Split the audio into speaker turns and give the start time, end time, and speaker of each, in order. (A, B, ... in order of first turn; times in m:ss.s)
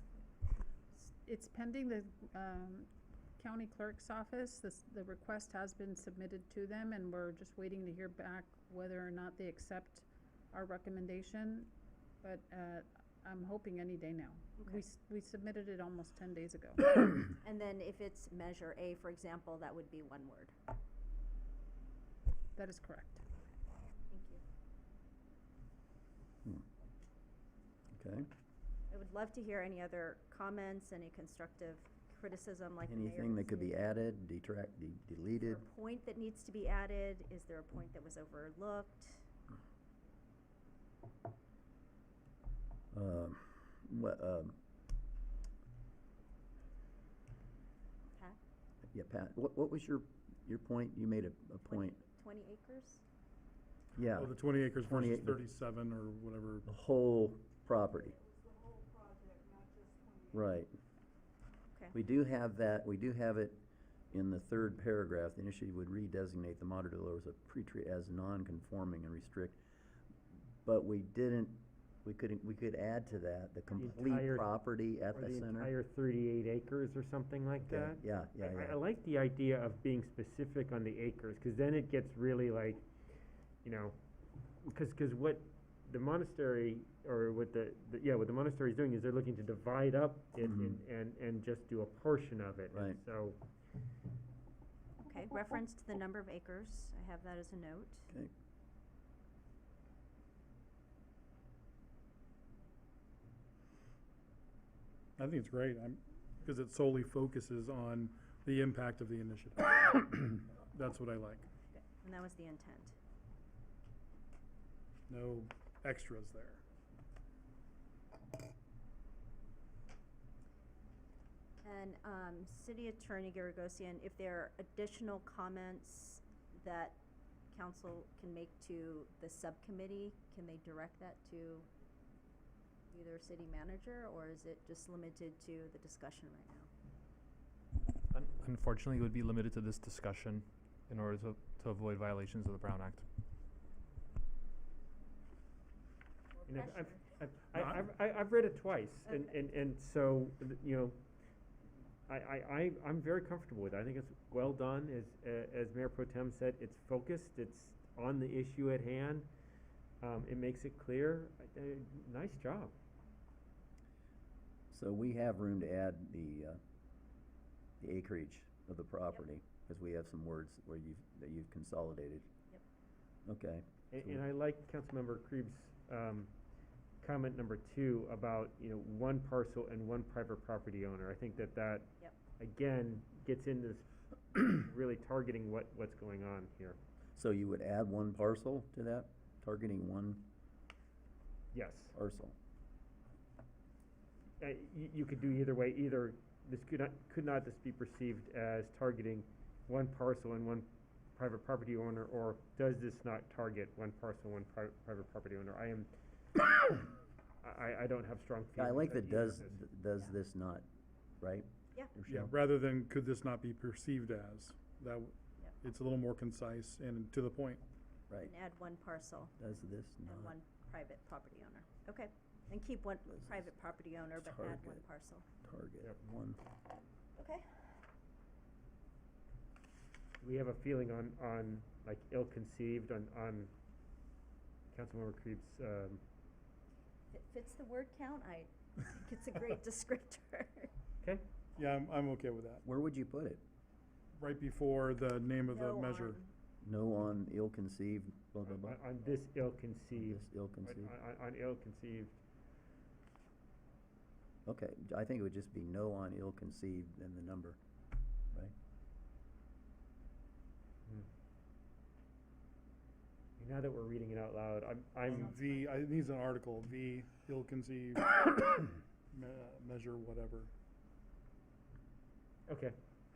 0:01.0-0:11.7 A
0:12.2-0:17.0 A
0:17.3-0:20.6 B
0:22.6-0:23.2 A
0:24.1-0:24.4 B
0:28.0-0:28.3 C
0:28.9-0:33.8 B
0:32.9-0:35.6 C
0:35.4-0:39.3 B
0:42.9-0:44.6 C
0:48.9-0:52.0 C
0:51.7-0:53.0 B
0:54.0-0:55.4 C
0:54.2-0:56.7 D
0:56.7-0:58.2 C
1:00.3-1:00.7 C
1:01.9-1:09.6 C
1:10.6-1:15.7 C
1:13.8-1:14.5 E
1:15.1-1:22.9 E
1:17.6-1:18.8 C
1:23.6-1:24.0 E
1:24.6-1:33.4 E
1:30.4-1:30.8 C
1:32.7-1:33.0 C
1:35.0-1:38.1 B
1:45.2-1:51.5 D
1:51.7-1:53.0 B
1:55.1-1:56.6 D
2:01.6-2:07.0 B
2:07.5-2:11.7 B
2:12.9-2:16.7 B
2:18.1-2:23.1 F
2:26.4-2:27.0 B
2:26.5-2:31.0 E
2:32.1-2:39.3 E
2:40.0-2:42.7 E
2:44.7-2:46.6 C
2:47.8-2:52.3 C
2:53.3-2:54.2 C
2:53.9-2:56.3 E
2:57.0-3:06.8 E
3:07.2-3:10.3 C
3:11.5-3:11.9 E
3:11.9-3:12.4 C
3:14.4-3:26.9 E
3:27.4-3:29.6 E
3:28.6-3:30.6 C
3:31.2-3:32.3 C
3:32.1-3:37.6 D
3:38.3-3:39.3 B
3:39.4-3:40.4 C
3:40.1-3:45.3 B
3:43.2-3:43.5 C
3:44.2-3:44.8 C
3:45.4-3:46.4 C
3:47.2-3:47.6 B
3:50.2-3:53.5 E
3:54.7-3:56.0 E
3:57.1-4:00.7 B
4:01.6-4:02.6 D
4:02.6-4:03.4 C
4:04.2-4:06.2 D
4:05.4-4:06.3 B
4:06.6-4:08.8 C
4:08.5-4:12.2 E
4:10.0-4:10.9 C
4:14.5-4:17.6 C
4:23.4-4:25.4 E
4:25.0-4:30.5 D
4:32.5-4:32.8 E